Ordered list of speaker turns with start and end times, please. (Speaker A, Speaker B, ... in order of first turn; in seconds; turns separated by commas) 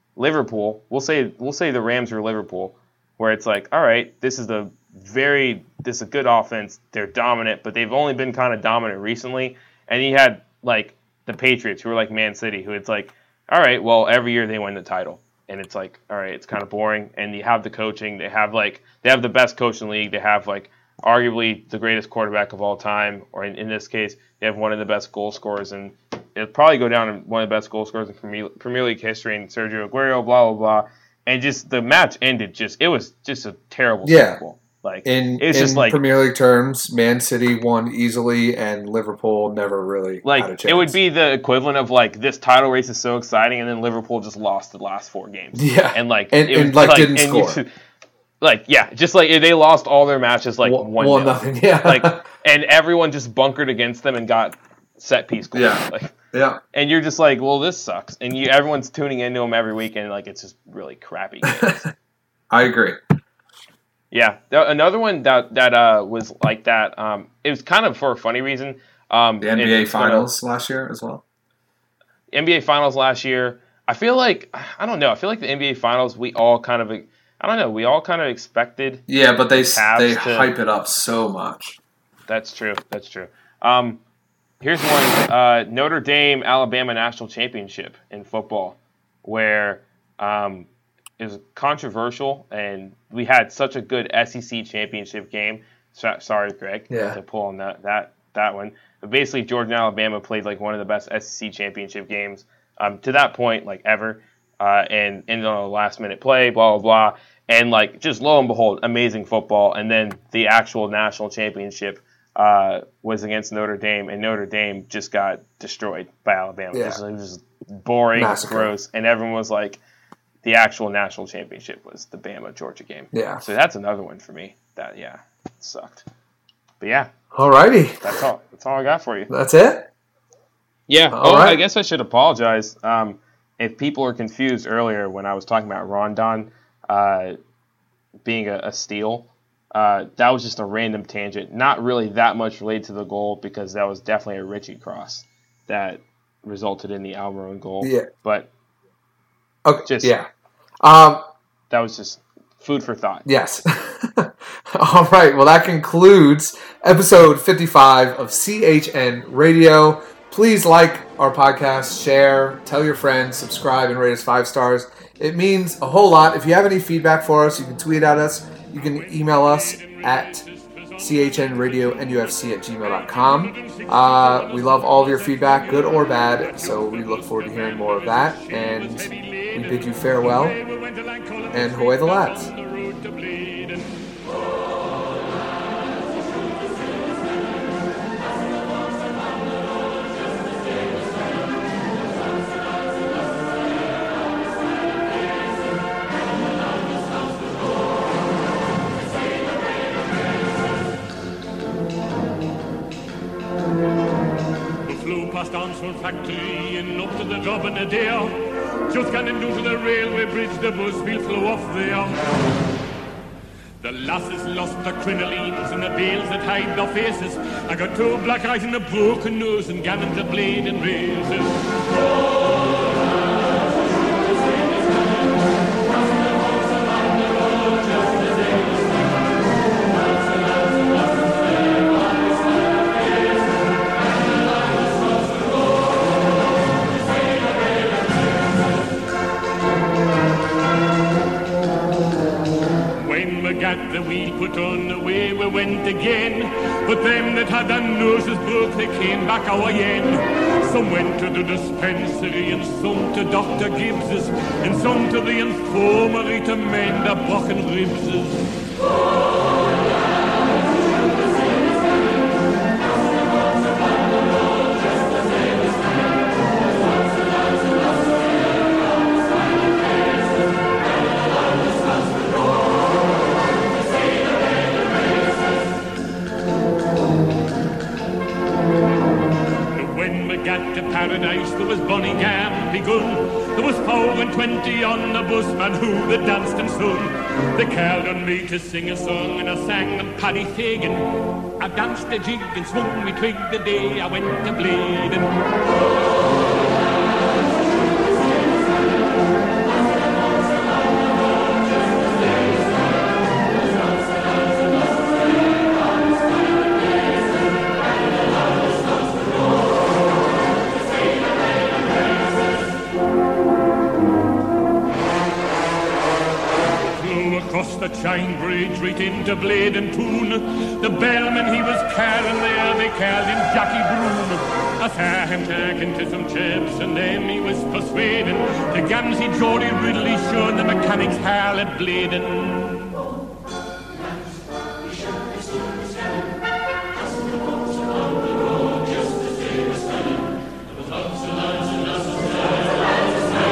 Speaker A: 0.1-36.0, Speaker B: 34.0-34.4, Speaker B: 35.0-41.0, Speaker A: 40.2-47.7, Speaker B: 45.5-47.6, Speaker A: 48.4-56.1, Speaker B: 50.6-52.2, Speaker B: 55.5-56.6, Speaker A: 56.7-61.9, Speaker B: 62.5-63.0, Speaker A: 64.1-70.3, Speaker B: 69.4-71.2, Speaker A: 72.3-80.5, Speaker B: 79.1-81.8, Speaker A: 82.3-84.0, Speaker A: 84.6-90.7, Speaker A: 91.2-119.8, Speaker B: 96.9-97.2, Speaker B: 116.7-117.0, Speaker B: 118.2-118.7, Speaker A: 120.4-126.0, Speaker B: 123.1-123.4, Speaker A: 126.8-127.1, Speaker B: 127.3-128.2, Speaker A: 128.0-129.3, Speaker B: 129.3-129.9, Speaker A: 130.9-137.4, Speaker B: 131.1-131.6, Speaker A: 138.2-148.5, Speaker B: 147.8-148.1, Speaker B: 149.6-150.3, Speaker A: 149.8-150.1, Speaker B: 150.8-151.2, Speaker A: 151.7-153.2, Speaker B: 153.2-170.4, Speaker C: 168.6-172.1, Speaker B: 171.0-180.6, Speaker C: 172.8-183.9, Speaker B: 181.5-182.5, Speaker C: 204.8-208.3, Speaker C: 208.9-212.2, Speaker C: 213.8-221.6, Speaker C: 243.0-258.4, Speaker C: 279.7-295.4, Speaker C: 316.9-332.9